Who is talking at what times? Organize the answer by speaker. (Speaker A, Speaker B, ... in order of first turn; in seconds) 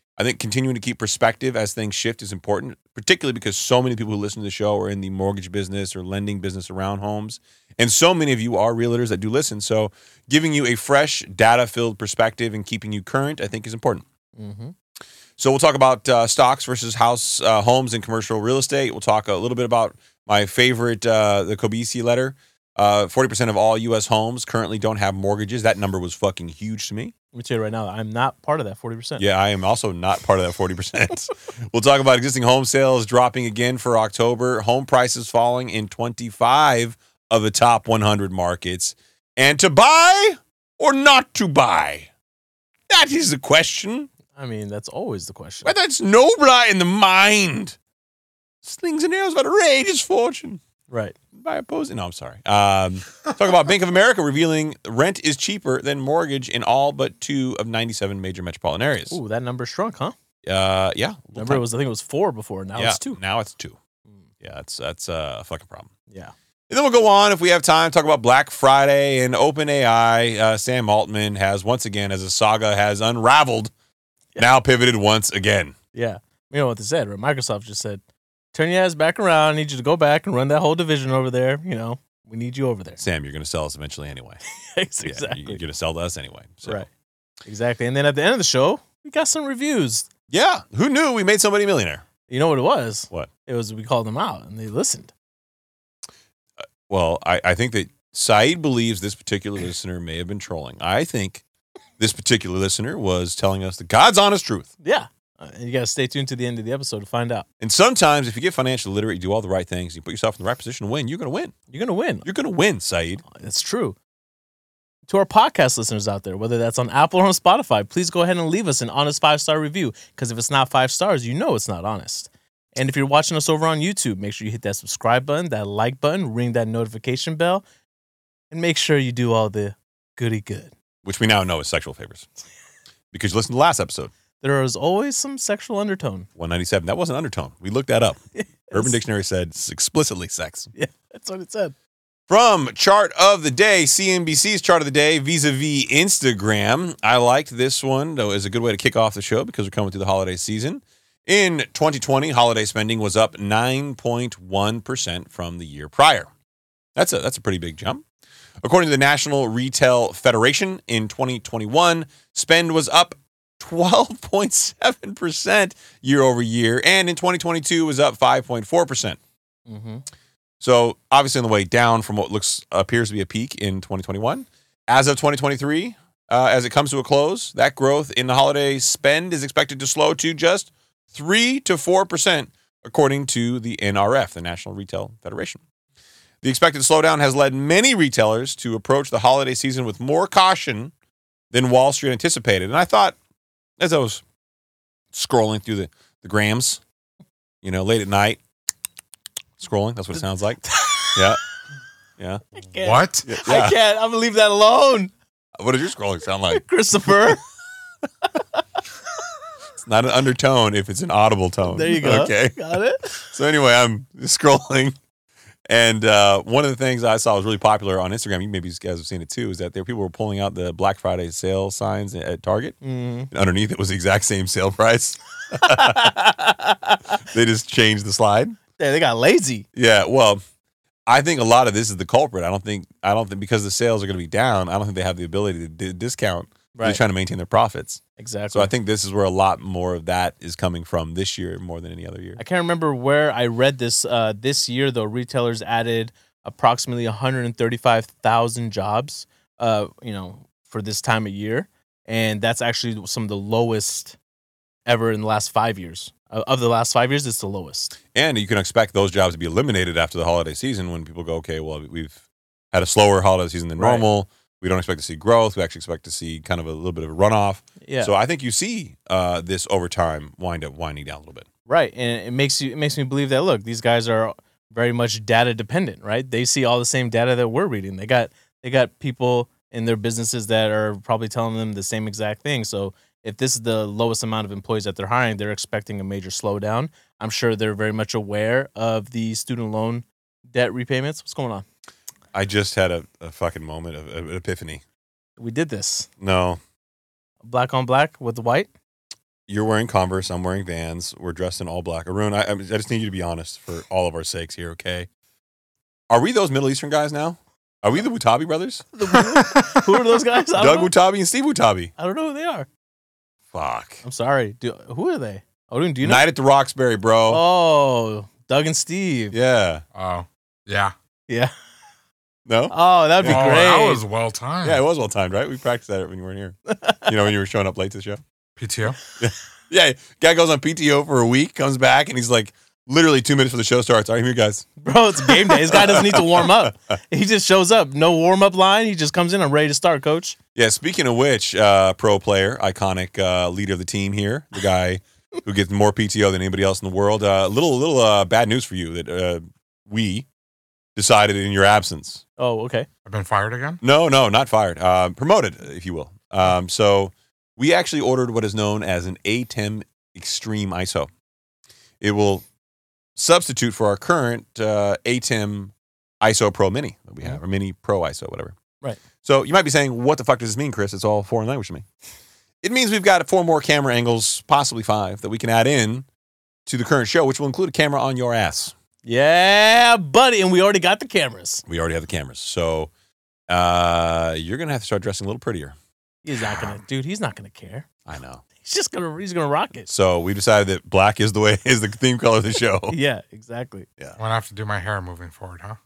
Speaker A: 0.2-14.1, 15.4-27.1, 29.2-42.1, 42.9-44.1, 45.6-47.8, 48.6-50.6, 51.4-59.2, 60.4-61.6, 62.8-63.8, 64.4-65.9, 66.7-73.7, 74.4-75.8, 83.0-84.4, 85.0-86.9, 90.3-92.0, 96.9-101.4, 102.0-104.7, 107.6-111.5, 112.2-113.2, 131.1-132.3, 133.1-134.1, 136.4-138.2, 138.7-140.7, 142.3-156.3, 157.0-158.0, 158.6-169.2, 170.6-185.6, 186.4-190.9, 191.5-193.2, 193.8-194.2, 195.1-196.8, 197.6-198.4, 199.6-201.4, 202.2-202.4, 203.2-203.8, 205.6-206.6, 209.8-212.6, 213.2-215.0, 215.7-222.8, 223.3-228.6, 229.8-230.4, 231.1-242.4, 258.1-271.5, 292.3-294.8, 296.2-296.6, 299.5-305.1, 306.1-308.9, 310.6-311.9, 313.5-314.0, 316.0-317.4, 319.3-319.8, 322.5-323.5, 324.6-328.2, 329.2-334.7, 335.6-336.7, 340.6-350.3, 351.0-352.2, 353.8-361.1, 362.0-362.4, 363.2-368.6, 369.2-371.9, 372.6-376.1, 376.7-378.7, 381.7-382.9, 383.5-385.8, 386.3-386.7, 388.1-388.4, 389.9-393.0
Speaker B: 14.4-14.7, 27.3-29.2, 44.4-45.8, 50.9-51.1, 59.1-60.2, 61.4-63.2, 75.9-78.0, 78.5-83.0, 84.6-85.6, 87.5-90.1, 92.3-95.1, 104.8-107.5, 111.7-112.3, 113.3-114.0, 115.1-127.6, 128.5-130.7, 134.4-136.3, 138.3-138.9, 140.8-141.7, 169.7-170.0, 200.7-201.2, 202.6-205.1, 206.5-207.4, 208.4-208.6, 211.7-213.3, 222.8-223.3, 225.6-226.1, 228.8-229.7, 236.8-237.0, 238.2-238.7, 242.4-254.2, 254.9-257.9, 263.8-264.1, 267.8-268.1, 271.7-291.6, 295.4-296.1, 297.4-298.7, 308.9-310.9, 312.0-312.7, 314.0-316.2, 317.3-319.4, 322.7-324.0, 334.8-340.4, 352.4-352.9, 379.1-381.6, 386.2-387.9, 388.6-389.9, 392.9-393.9
Speaker C: 202.8-203.3, 309.2-309.9, 319.9-320.9, 323.2-324.8, 328.6-329.0, 353.1-353.8, 394.2-395.8